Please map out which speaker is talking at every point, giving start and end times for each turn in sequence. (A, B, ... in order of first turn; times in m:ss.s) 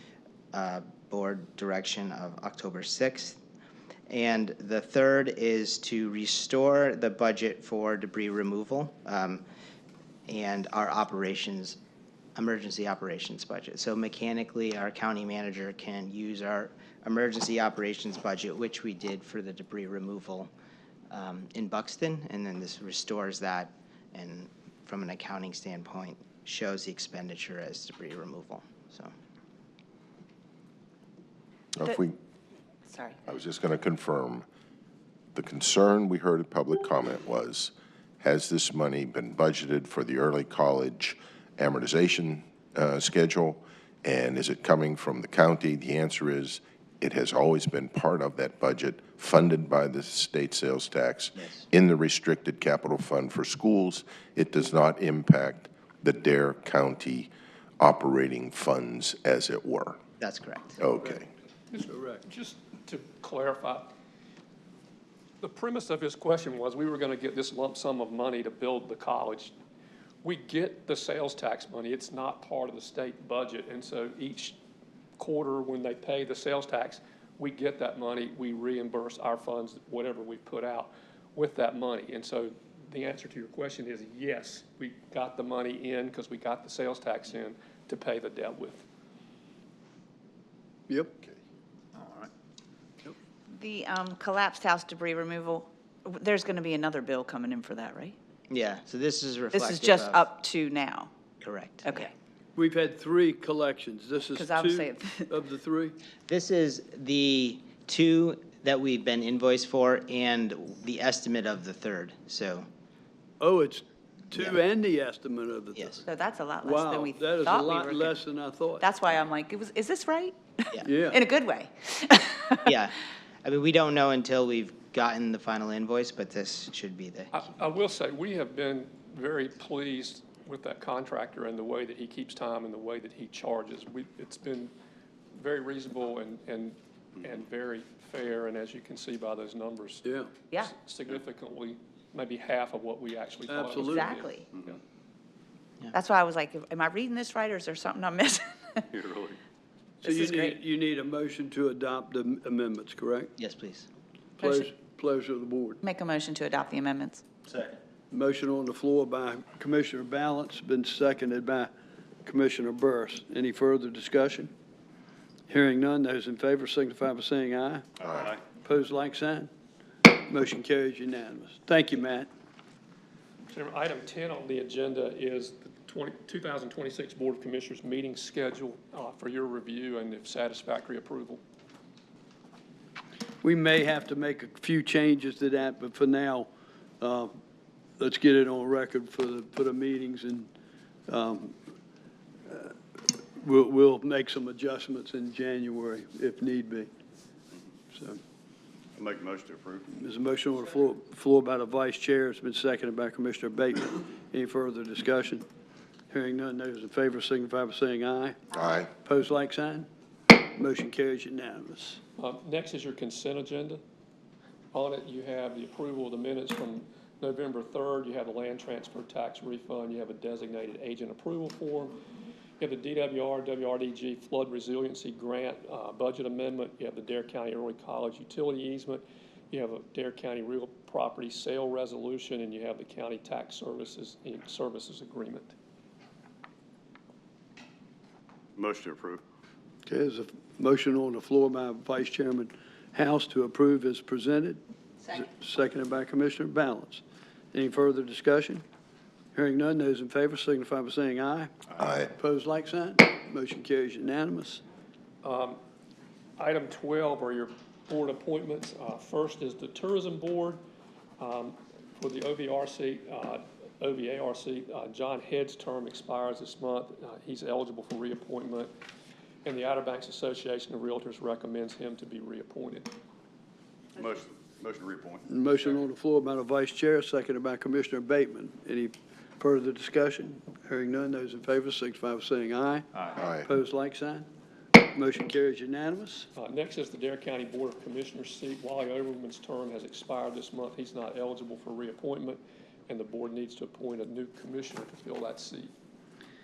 0:00.5-0:03.4 A
0:04.1-0:09.4 A
0:10.3-0:11.8 A
0:12.4-0:20.5 A
0:21.1-0:29.1 A
0:31.8-0:32.2 B
0:32.8-0:33.2 C
0:33.3-0:34.4 B
0:35.3-1:00.0 B
1:00.2-1:00.8 A
1:00.8-1:01.3 B
1:01.7-1:03.9 D
1:01.8-1:02.2 E
1:05.4-1:09.5 D
1:10.2-1:14.6 D
1:15.2-1:28.8 D
1:30.9-1:31.1 E
1:33.5-1:38.2 C
1:38.5-1:40.2 A
1:39.5-1:41.1 C
1:41.4-1:42.1 A
1:41.8-1:42.1 C
1:42.6-1:46.0 E
1:44.3-1:45.3 C
1:46.3-1:52.6 A
1:53.4-1:56.0 E
1:54.3-1:54.6 A
1:55.7-1:56.0 A
1:56.0-1:58.1 C
1:56.6-1:58.8 E
1:58.8-2:02.7 C
2:00.8-2:01.2 E
2:02.6-2:07.3 A
2:07.3-2:14.7 D
2:15.4-2:24.3 D
2:20.0-2:20.3 E
2:23.5-2:24.2 E
2:23.8-2:24.4 C
2:25.9-2:28.8 C
2:28.9-2:29.4 F
2:30.0-2:30.6 C
2:30.0-2:33.3 E
2:33.4-2:33.9 A
2:34.4-2:34.7 C
2:34.4-2:35.8 E
2:35.8-2:37.2 C
2:38.1-2:41.7 E
2:42.2-2:44.5 E
2:45.5-2:47.8 E
2:48.0-2:48.4 F
2:48.6-2:49.5 E
2:50.1-2:52.3 E
2:53.5-3:01.4 D
3:03.4-3:06.5 E
3:07.0-3:07.3 E
3:08.0-3:10.5 E
3:11.1-3:11.6 E
3:12.5-3:12.8 E
3:13.4-3:16.9 E
3:17.9-3:18.2 E
3:18.9-3:19.9 F
3:19.9-3:25.4 E
3:26.1-3:28.4 E
3:28.5-3:28.9 B
3:29.0-3:29.9 E
3:30.6-3:32.0 E
3:32.2-3:33.8 D
3:34.7-3:41.9 D
3:42.6-3:55.5 D
3:58.6-3:59.2 F
3:59.8-4:07.0 E
4:07.5-4:08.6 E
4:09.3-4:11.5 E
4:11.8-4:12.1 B
4:12.1-4:14.6 E
4:15.2-4:15.6 D
4:16.4-4:20.6 D
4:21.2-4:28.7 D
4:29.4-4:32.9 D
4:33.9-4:35.8 F
4:35.3-4:42.9 E
4:43.2-4:43.4 B
4:43.4-4:46.3 E
4:46.4-4:55.7 D